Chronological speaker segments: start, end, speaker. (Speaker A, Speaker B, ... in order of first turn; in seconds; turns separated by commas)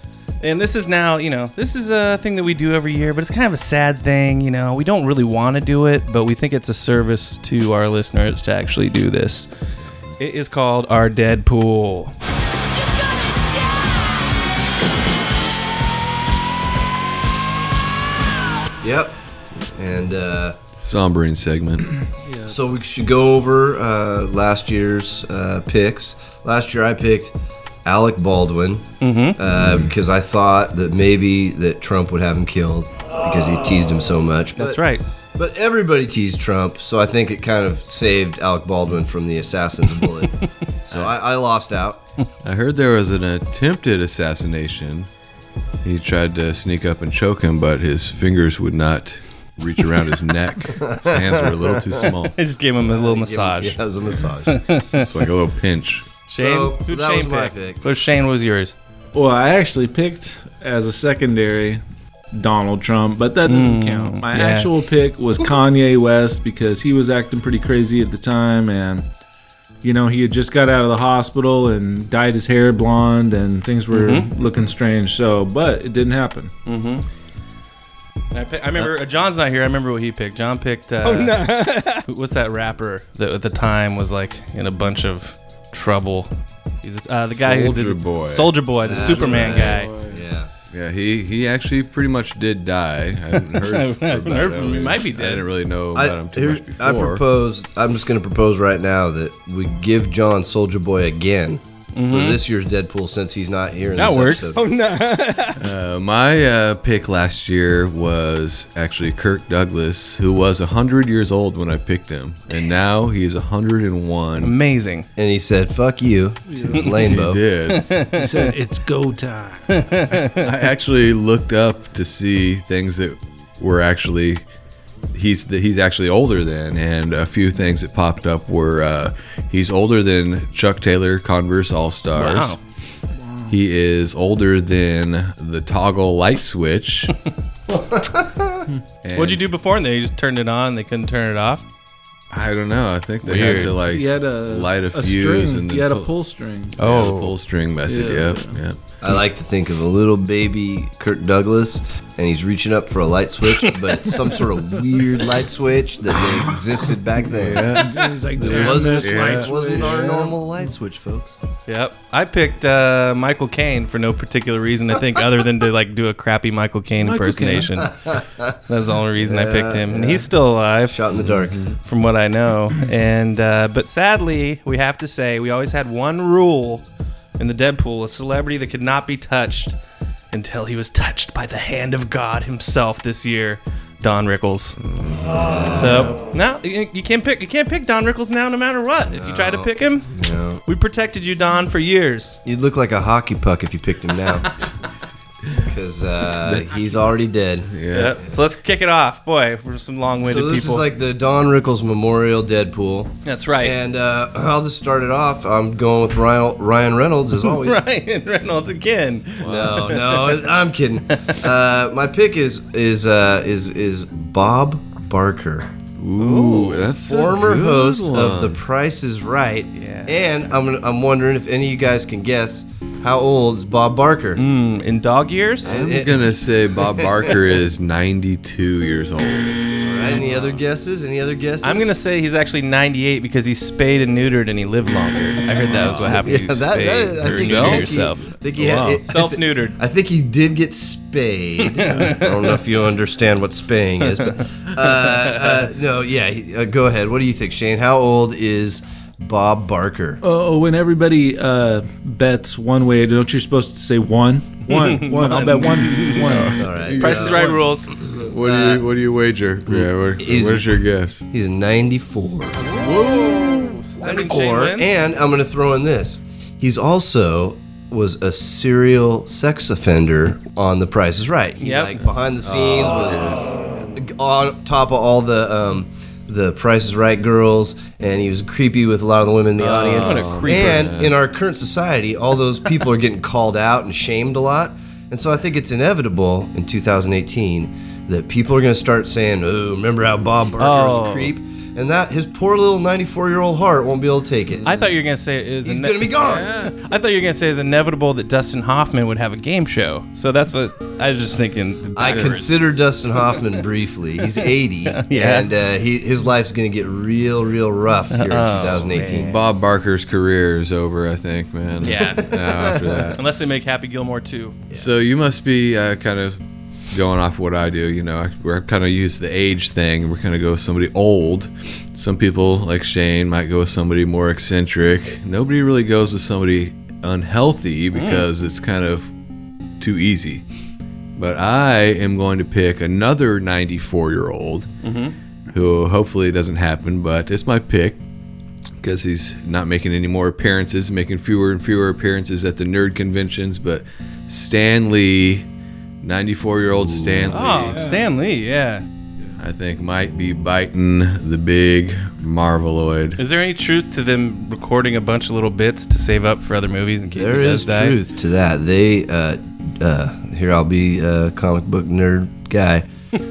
Speaker A: 0.4-9.5, Speaker A: 10.2-12.1, Speaker B: 18.8-19.1, Speaker B: 19.8-20.6, Speaker C: 20.8-21.9, Speaker D: 22.2-22.6, Speaker B: 22.4-27.3, Speaker B: 27.8-28.8, Speaker A: 29.0-29.4, Speaker B: 29.4-42.0, Speaker C: 29.5-29.9, Speaker A: 34.6-35.0, Speaker C: 42.4-45.1, Speaker C: 45.8-52.3, Speaker B: 50.8-52.1, Speaker A: 52.0-53.8, Speaker B: 52.8-54.5, Speaker A: 54.5-55.0, Speaker C: 55.0-56.1, Speaker B: 56.3-57.8, Speaker A: 56.3-58.7, Speaker D: 59.1-61.8, Speaker D: 62.4-69.0, Speaker A: 63.5-64.7, Speaker D: 69.8-76.5, Speaker A: 73.9-74.3, Speaker A: 76.7-77.0, Speaker A: 78.3-86.3, Speaker C: 81.0-82.0, Speaker A: 86.8-89.9, Speaker C: 87.3-90.2, Speaker B: 88.8-90.5, Speaker C: 90.7-97.2, Speaker A: 93.3-95.5, Speaker B: 95.9-104.8, Speaker A: 101.9-102.4, Speaker A: 104.0-104.7, Speaker C: 105.6-114.5, Speaker A: 114.4-115.1, Speaker B: 115.2-117.4, Speaker D: 116.5-116.9, Speaker C: 117.0-117.8, Speaker A: 117.7-118.5, Speaker D: 118.1-119.7, Speaker A: 119.7-120.4, Speaker C: 120.4-124.5, Speaker C: 125.1-132.6, Speaker A: 132.2-132.6, Speaker D: 133.2-133.5, Speaker C: 133.5-137.1, Speaker B: 137.7-138.5, Speaker C: 139.0-139.4, Speaker A: 139.2-141.6, Speaker C: 142.3-146.1, Speaker A: 143.2-143.7, Speaker D: 143.4-146.7, Speaker C: 146.8-148.8, Speaker A: 146.8-147.3, Speaker D: 147.8-148.6, Speaker B: 149.0-161.4, Speaker A: 153.6-154.2, Speaker C: 157.3-160.3, Speaker D: 157.8-160.1, Speaker A: 161.7-167.9, Speaker D: 167.0-167.8, Speaker B: 167.8-168.5, Speaker A: 168.7-171.0, Speaker B: 169.2-170.3, Speaker B: 170.8-171.7, Speaker C: 171.1-171.8, Speaker A: 171.8-176.8, Speaker A: 177.4-179.8, Speaker A: 180.3-184.8, Speaker C: 184.9-186.1, Speaker A: 185.7-190.1, Speaker B: 189.1-190.6, Speaker A: 190.6-192.4, Speaker B: 192.4-194.5, Speaker B: 195.6-198.4, Speaker C: 196.4-196.7, Speaker C: 197.7-198.2, Speaker A: 197.9-200.8, Speaker B: 200.2-207.8, Speaker A: 203.2-203.8, Speaker A: 207.4-210.4, Speaker C: 209.4-209.7, Speaker B: 209.4-215.7, Speaker C: 216.0-218.6, Speaker A: 216.2-216.8, Speaker B: 216.3-224.4, Speaker A: 219.7-220.1, Speaker A: 224.4-225.8, Speaker B: 225.6-227.4, Speaker C: 225.6-230.6, Speaker B: 229.8-231.9, Speaker A: 231.6-239.8, Speaker C: 235.6-236.4, Speaker B: 236.0-250.2, Speaker C: 237.2-239.0, Speaker A: 241.7-242.3, Speaker A: 244.8-245.6, Speaker D: 250.2-256.6, Speaker A: 254.7-257.9, Speaker C: 256.2-257.5, Speaker B: 256.5-257.4, Speaker C: 258.2-261.2, Speaker B: 258.4-258.8, Speaker B: 259.6-260.7, Speaker B: 261.3-262.6, Speaker A: 262.6-264.9, Speaker B: 264.0-294.7, Speaker A: 271.6-272.1, Speaker C: 272.4-273.4, Speaker C: 279.6-281.2, Speaker A: 279.9-280.8, Speaker A: 290.6-291.3, Speaker A: 294.6-302.6, Speaker B: 295.6-296.5, Speaker C: 296.3-296.7, Speaker B: 301.9-309.4, Speaker A: 304.9-305.5, Speaker A: 308.1-309.2, Speaker C: 308.5-313.2, Speaker A: 311.8-312.4, Speaker B: 312.5-313.1, Speaker A: 313.1-314.6, Speaker C: 314.7-329.1, Speaker A: 327.9-328.2, Speaker C: 329.8-330.4, Speaker C: 331.1-334.7, Speaker A: 334.8-335.1, Speaker C: 335.5-338.0, Speaker C: 338.8-345.5, Speaker C: 346.0-347.9, Speaker B: 346.9-347.4, Speaker A: 347.3-348.8, Speaker D: 347.7-348.1, Speaker C: 349.4-353.2, Speaker A: 353.2-357.9, Speaker B: 357.1-362.8